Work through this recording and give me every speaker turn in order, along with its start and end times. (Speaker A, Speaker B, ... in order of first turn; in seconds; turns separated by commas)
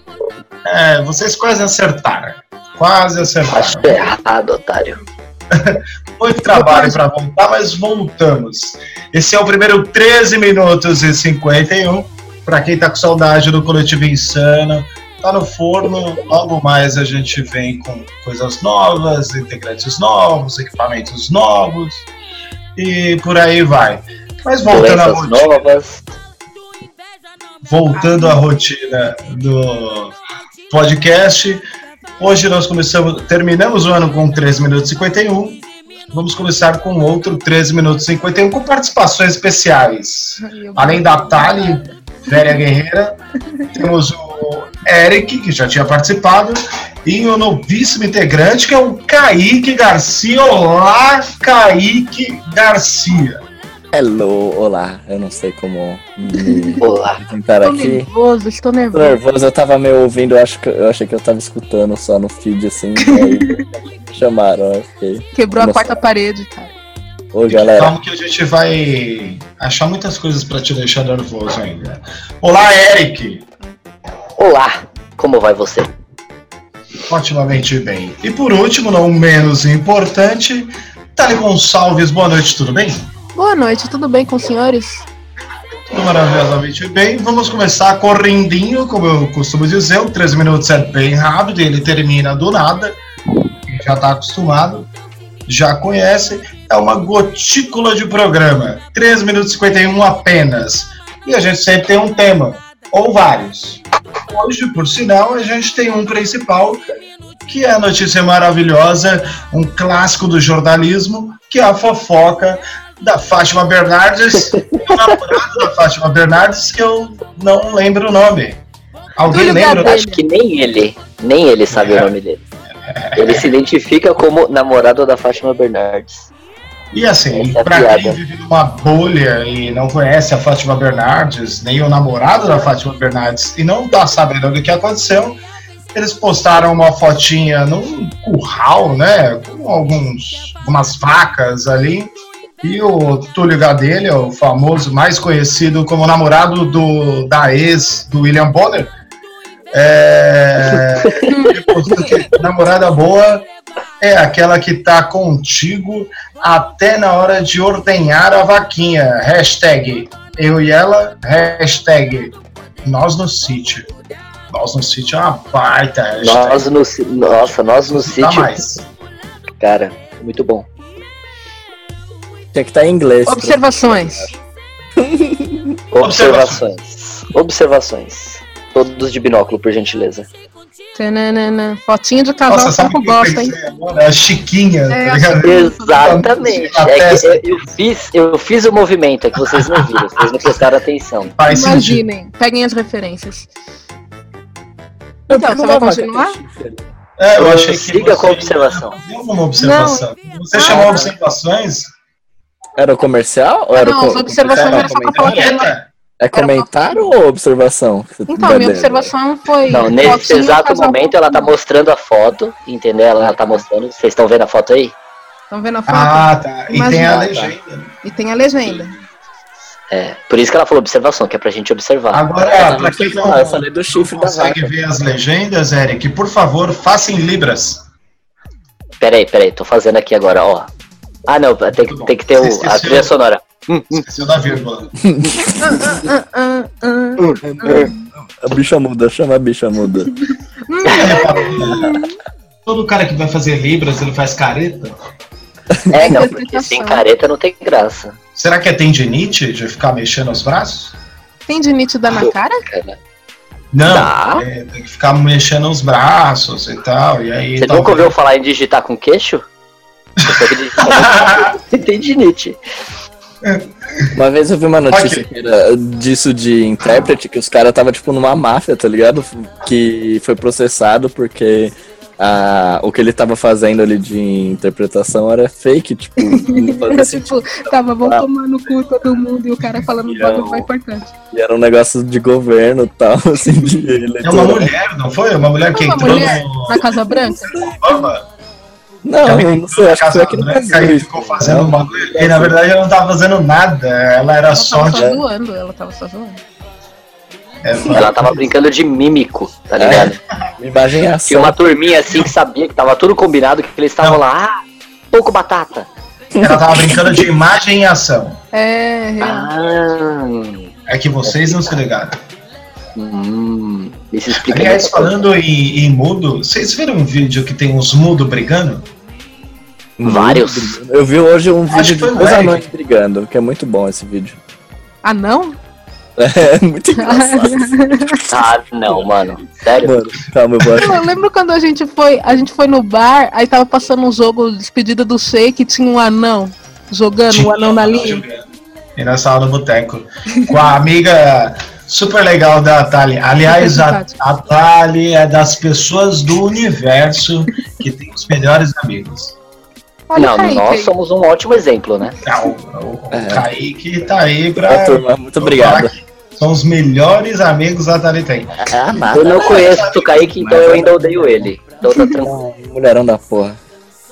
Speaker A: 0.7-4.1, Speaker B: 3.5-5.0, Speaker A: 5.5-22.1, Speaker C: 6.5-7.0, Speaker A: 22.8-25.7, Speaker B: 24.6-26.1, Speaker A: 27.6-30.1, Speaker C: 27.9-28.4, Speaker A: 30.7-31.6, Speaker A: 32.2-43.1, Speaker C: 40.4-42.6, Speaker A: 43.7-53.4, Speaker D: 53.9-58.1, Speaker C: 56.3-56.8, Speaker B: 56.8-57.2, Speaker C: 57.6-59.2, Speaker D: 58.9-65.9, Speaker C: 63.0-63.6, Speaker C: 65.3-66.7, Speaker D: 67.3-68.0, Speaker A: 67.5-73.4, Speaker B: 74.4-75.9, Speaker A: 77.1-83.0, Speaker C: 83.3-85.1, Speaker A: 85.9-92.9, Speaker A: 93.7-94.9, Speaker A: 95.5-106.8, Speaker A: 107.5-118.6, Speaker B: 114.9-115.3, Speaker A: 119.2-120.0, Speaker C: 119.3-120.2, Speaker B: 119.7-122.4, Speaker A: 121.7-122.1, Speaker A: 122.9-123.5, Speaker B: 123.2-126.3, Speaker A: 126.9-135.4, Speaker B: 127.3-128.2, Speaker A: 135.9-148.9, Speaker A: 149.7-153.5, Speaker C: 151.2-152.1, Speaker A: 154.0-163.9, Speaker A: 164.5-168.8, Speaker B: 166.2-168.6, Speaker B: 169.6-170.7, Speaker D: 172.5-174.3, Speaker C: 173.2-174.4, Speaker D: 175.0-175.7, Speaker B: 175.9-180.3, Speaker A: 176.0-176.7, Speaker C: 180.9-183.6, Speaker A: 182.5-187.7, Speaker C: 184.9-186.3, Speaker B: 185.4-191.3, Speaker A: 189.4-190.3, Speaker A: 191.4-192.0, Speaker C: 191.4-193.5, Speaker C: 195.3-196.4, Speaker D: 195.3-196.9, Speaker A: 197.2-201.9, Speaker B: 197.3-199.0, Speaker C: 199.6-201.1, Speaker D: 200.7-201.1, Speaker D: 202.8-205.6, Speaker C: 203.7-205.7, Speaker A: 204.4-205.8, Speaker D: 206.2-209.1, Speaker C: 206.3-207.0, Speaker C: 208.3-211.5, Speaker B: 209.7-214.9, Speaker D: 209.7-210.1, Speaker D: 213.2-213.6, Speaker C: 215.5-218.9, Speaker A: 215.9-218.0, Speaker B: 219.9-222.2, Speaker A: 222.1-227.8, Speaker D: 222.5-224.7, Speaker B: 229.0-230.7, Speaker B: 231.3-234.0, Speaker A: 231.7-233.1, Speaker A: 233.9-234.9, Speaker D: 235.1-235.6, Speaker C: 235.6-238.1, Speaker D: 237.2-240.1, Speaker C: 240.0-242.2, Speaker B: 240.8-241.6, Speaker A: 240.9-241.9, Speaker A: 242.7-244.9, Speaker B: 245.9-248.1, Speaker C: 246.0-247.1, Speaker A: 248.3-250.9, Speaker C: 251.5-252.6, Speaker B: 252.1-253.0, Speaker A: 253.7-258.1, Speaker B: 253.8-254.4, Speaker B: 257.6-259.4, Speaker A: 260.2-261.5, Speaker B: 260.2-262.6, Speaker A: 263.4-264.1, Speaker D: 264.1-278.2, Speaker A: 264.9-265.2, Speaker C: 276.2-281.1, Speaker D: 280.0-280.6, Speaker D: 281.3-284.7, Speaker A: 284.2-286.8, Speaker C: 285.7-287.7, Speaker D: 286.0-287.4, Speaker A: 287.5-288.2, Speaker D: 289.0-291.8, Speaker A: 289.2-295.1, Speaker B: 291.9-292.5, Speaker C: 294.5-296.4, Speaker D: 294.9-295.2, Speaker A: 297.6-298.4, Speaker B: 297.9-300.2, Speaker D: 299.8-301.6, Speaker A: 299.9-300.1, Speaker B: 301.3-304.5, Speaker A: 302.0-302.3, Speaker B: 305.1-305.9, Speaker A: 306.4-308.4, Speaker D: 306.4-307.2, Speaker C: 308.5-309.5, Speaker B: 309.2-310.7, Speaker A: 310.9-312.2, Speaker B: 311.2-311.7, Speaker B: 313.0-315.3, Speaker A: 314.4-318.9, Speaker D: 320.0-324.4, Speaker B: 320.0-320.8, Speaker A: 321.7-322.6, Speaker C: 325.0-325.6, Speaker D: 326.2-329.1, Speaker C: 326.9-328.2, Speaker B: 328.3-330.0, Speaker D: 329.8-331.0, Speaker C: 330.8-338.2, Speaker A: 337.3-349.4, Speaker C: 340.3-340.6, Speaker C: 343.4-344.2, Speaker C: 350.1-350.9, Speaker B: 350.1-352.2, Speaker A: 352.2-358.5, Speaker D: 353.1-353.5, Speaker D: 354.7-355.9, Speaker D: 358.6-361.5, Speaker B: 359.1-362.3, Speaker A: 359.3-360.3, Speaker C: 361.8-362.2, Speaker D: 362.2-363.6